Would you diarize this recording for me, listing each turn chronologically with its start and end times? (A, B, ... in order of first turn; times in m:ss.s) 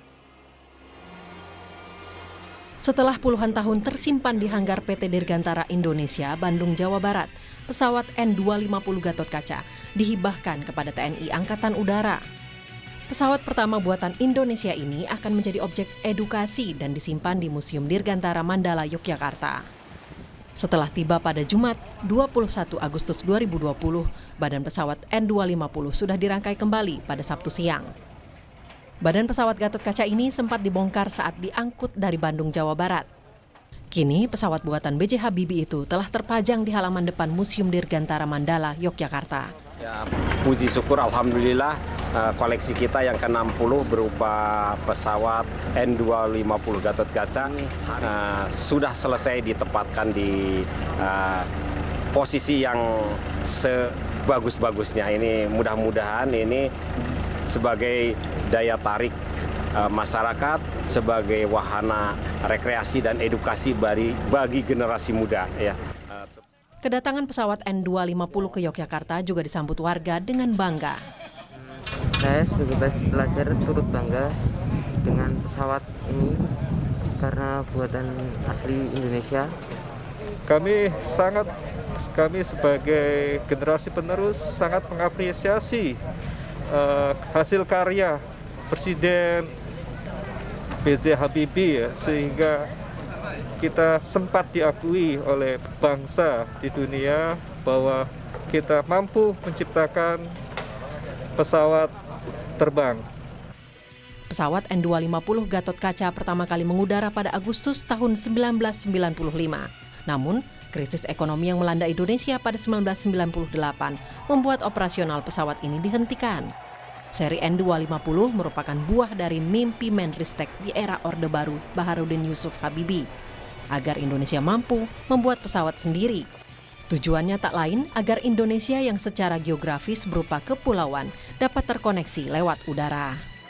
0:02.8-0:12.2 A
0:13.1-0:19.6 A
0:20.6-0:27.9 A
0:29.0-0:33.0 A
0:33.9-0:39.5 A
0:39.8-0:51.5 B
0:52.1-0:56.7 B
0:57.5-0:59.2 B
0:59.8-1:06.4 B
1:06.8-1:11.0 A
1:12.2-1:14.3 C
1:15.0-1:16.6 C
1:17.2-1:19.6 C
1:20.5-1:26.0 D
1:26.7-1:29.5 D
1:30.8-1:32.7 D
1:33.6-1:40.3 D
1:41.4-1:41.9 D
1:42.6-1:43.0 D
1:44.3-1:56.5 A
1:57.2-2:03.0 A
2:03.7-2:06.3 A
2:06.9-2:13.2 A